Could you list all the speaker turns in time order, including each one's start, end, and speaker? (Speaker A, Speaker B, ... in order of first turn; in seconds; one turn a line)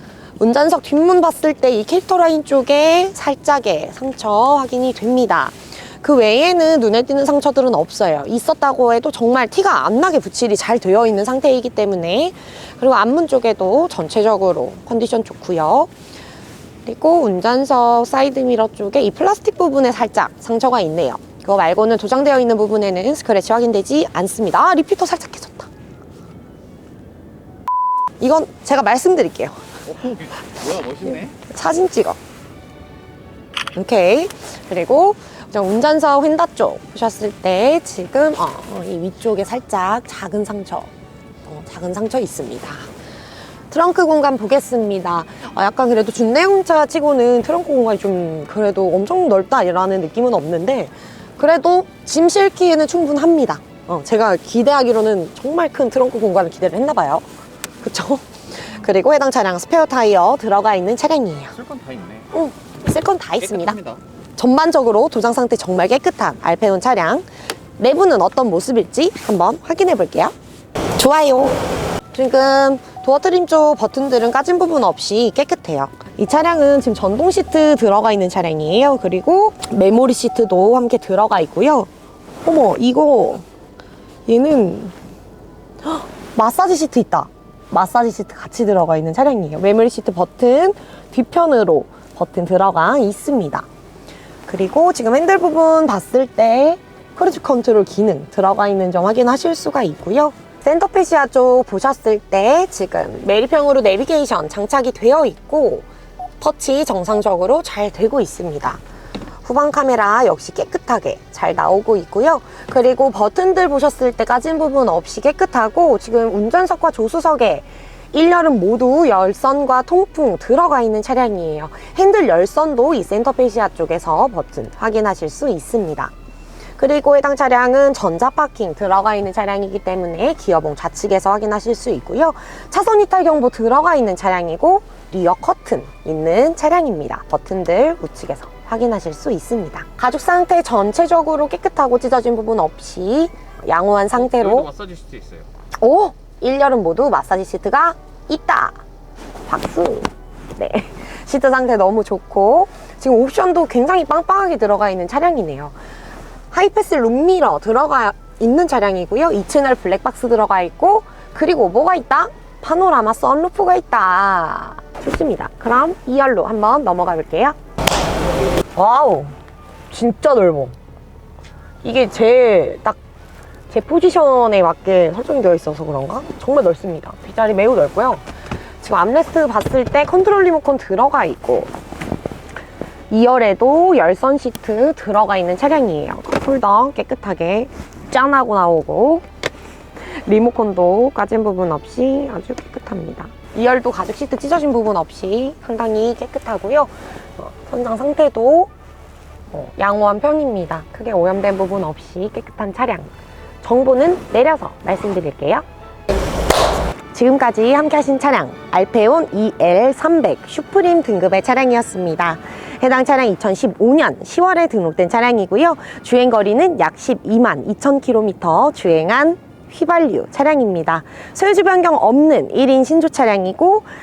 Speaker A: 0.4-15.9
Speaker A: 16.8-25.7
Speaker A: 28.2-30.1
Speaker B: 29.9-31.4
Speaker A: 31.4-32.2
Speaker A: 33.7-40.9
Speaker A: 41.5-42.9
Speaker A: 43.7-57.2
Speaker A: 57.8-61.6
Speaker B: 61.5-62.3
Speaker A: 62.3-63.8
Speaker B: 63.4-64.0
Speaker A: 64.4-70.3
Speaker A: 71.0-71.6
Speaker A: 72.1-81.9
Speaker A: 82.4-83.4
Speaker A: 84.3-84.9
Speaker A: 85.8-93.7
Speaker A: 94.5-105.8
Speaker A: 106.4-108.8
Speaker A: 109.4-126.1
Speaker A: 126.8-144.7
Speaker B: 144.2-145.5
Speaker A: 145.8-148.8
Speaker A: 149.5-155.8
Speaker A: 156.5-167.6
Speaker A: 168.8-169.3
Speaker A: 169.9-170.7
Speaker A: 171.8-173.0
Speaker A: 173.7-178.2
Speaker A: 178.8-181.7
Speaker A: 183.1-189.2
Speaker A: 190.0-198.7
Speaker A: 199.5-203.1
Speaker A: 203.6-205.6
Speaker A: 207.1-223.8